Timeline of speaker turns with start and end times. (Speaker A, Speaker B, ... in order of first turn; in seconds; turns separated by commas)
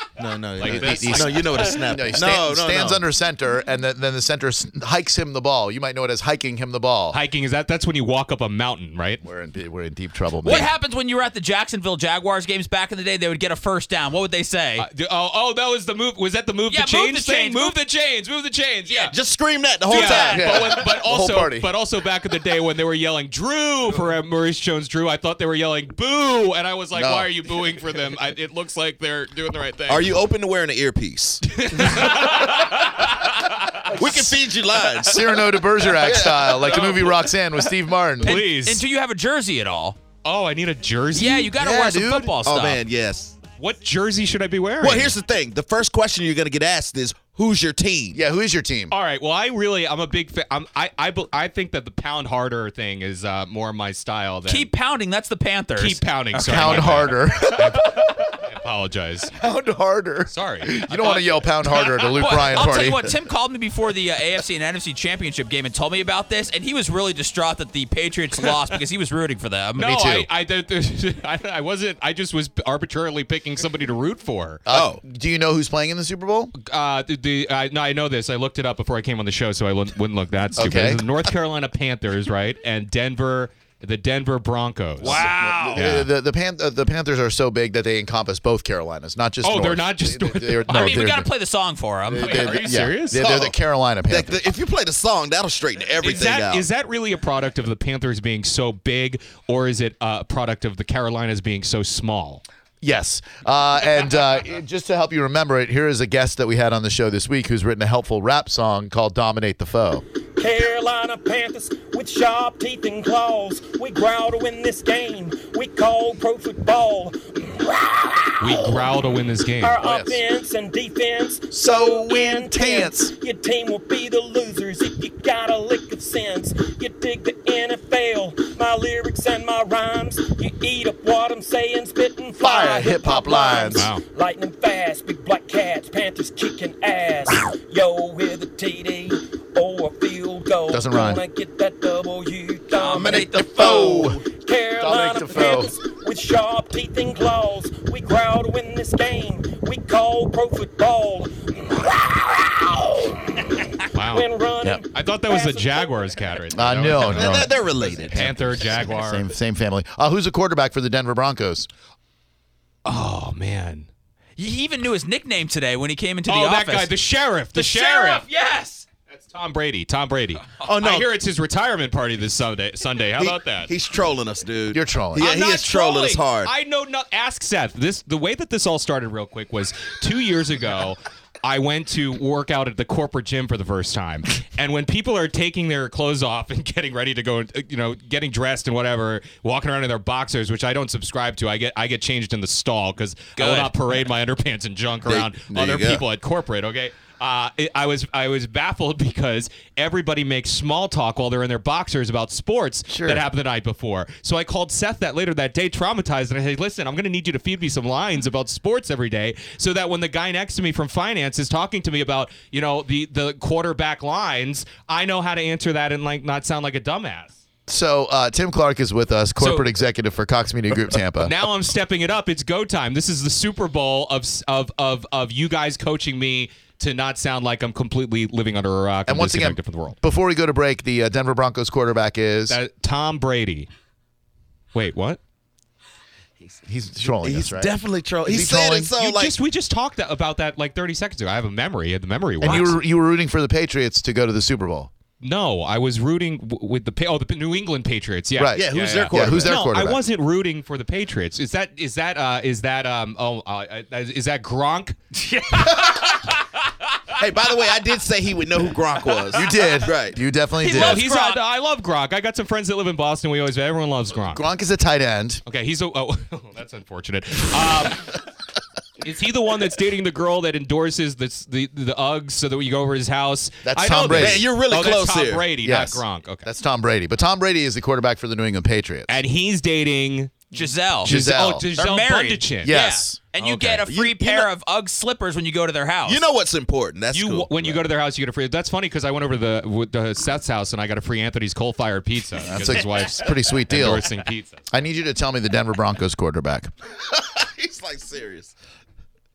Speaker A: 0.2-3.0, Speaker B: 0.6-2.1, Speaker C: 0.6-7.2, Speaker B: 7.1-9.2, Speaker C: 9.2-10.7, Speaker D: 10.4-14.8, Speaker B: 14.8-19.1, Speaker D: 16.7-17.8, Speaker D: 18.9-19.1, Speaker A: 19.1-20.6, Speaker D: 19.9-20.6, Speaker B: 19.9-30.2, Speaker C: 20.4-21.7, Speaker C: 26.9-27.3, Speaker A: 29.9-31.4, Speaker B: 31.5-33.9, Speaker C: 31.8-32.3, Speaker C: 33.9-34.4, Speaker A: 34.0-35.2, Speaker C: 35.0-38.4, Speaker A: 35.9-36.5, Speaker B: 36.4-37.2, Speaker B: 38.2-38.8, Speaker D: 38.2-40.0, Speaker B: 40.2-41.5, Speaker D: 41.1-42.8, Speaker C: 41.5-42.3, Speaker A: 42.4-43.4, Speaker B: 43.5-45.1, Speaker A: 44.8-48.2, Speaker C: 48.1-48.9, Speaker B: 48.9-54.7, Speaker D: 54.5-57.1, Speaker B: 55.8-59.3, Speaker C: 56.5-58.0, Speaker C: 59.4-63.1, Speaker B: 60.3-62.7, Speaker D: 62.2-69.9, Speaker B: 69.8-74.6, Speaker C: 69.8-70.3, Speaker C: 74.7-76.5, Speaker A: 74.7-75.0, Speaker B: 76.6-86.1, Speaker C: 80.5-81.0, Speaker D: 85.0-85.8, Speaker C: 85.0-91.3, Speaker B: 89.4-91.0, Speaker D: 90.7-92.8, Speaker C: 92.1-94.4, Speaker B: 92.2-93.2, Speaker A: 93.1-93.5, Speaker A: 94.1-96.6, Speaker B: 96.0-102.4, Speaker C: 102.8-110.0, Speaker E: 110.4-119.0, Speaker B: 118.4-120.1, Speaker E: 119.6-156.4, Speaker C: 119.8-120.2, Speaker C: 121.5-123.1, Speaker C: 132.4-133.9, Speaker B: 133.7-134.0, Speaker C: 140.7-141.2, Speaker D: 142.7-144.2, Speaker A: 143.0-144.1, Speaker C: 143.6-144.2, Speaker C: 144.8-145.7, Speaker B: 153.9-154.3, Speaker B: 154.9-157.5, Speaker C: 156.5-161.7, Speaker A: 157.0-158.3, Speaker B: 158.1-159.2, Speaker B: 162.8-163.9, Speaker D: 164.4-166.9, Speaker B: 166.3-168.3, Speaker D: 167.5-168.9, Speaker B: 169.1-173.7, Speaker A: 170.6-171.1, Speaker A: 173.2-176.5, Speaker C: 174.7-175.2, Speaker B: 175.1-217.3, Speaker D: 193.4-193.7, Speaker A: 195.1-196.0, Speaker C: 202.9-203.2, Speaker C: 217.7-221.3, Speaker B: 219.4-219.6, Speaker B: 221.2-230.0, Speaker C: 229.1-232.6, Speaker B: 232.5-233.7, Speaker B: 234.7-235.2, Speaker C: 236.7-238.9, Speaker A: 237.1-239.3, Speaker B: 239.0-242.8, Speaker C: 242.4-244.9, Speaker B: 245.2-255.0, Speaker C: 248.3-250.0, Speaker A: 248.5-249.7, Speaker D: 255.5-255.8, Speaker A: 257.2-260.2, Speaker C: 259.3-261.0, Speaker D: 260.6-261.4, Speaker B: 260.6-264.4, Speaker C: 264.2-265.4, Speaker B: 265.4-268.2, Speaker B: 269.0-276.5, Speaker C: 273.6-274.4, Speaker A: 274.1-275.5, Speaker C: 275.6-279.1, Speaker B: 279.1-282.8, Speaker D: 280.5-281.1, Speaker C: 281.0-281.6, Speaker D: 281.8-286.2, Speaker C: 282.6-283.2, Speaker B: 283.4-283.8, Speaker A: 283.9-284.5, Speaker A: 286.0-287.9, Speaker B: 287.1-294.7, Speaker C: 292.4-294.1, Speaker C: 294.7-296.7, Speaker A: 297.1-298.5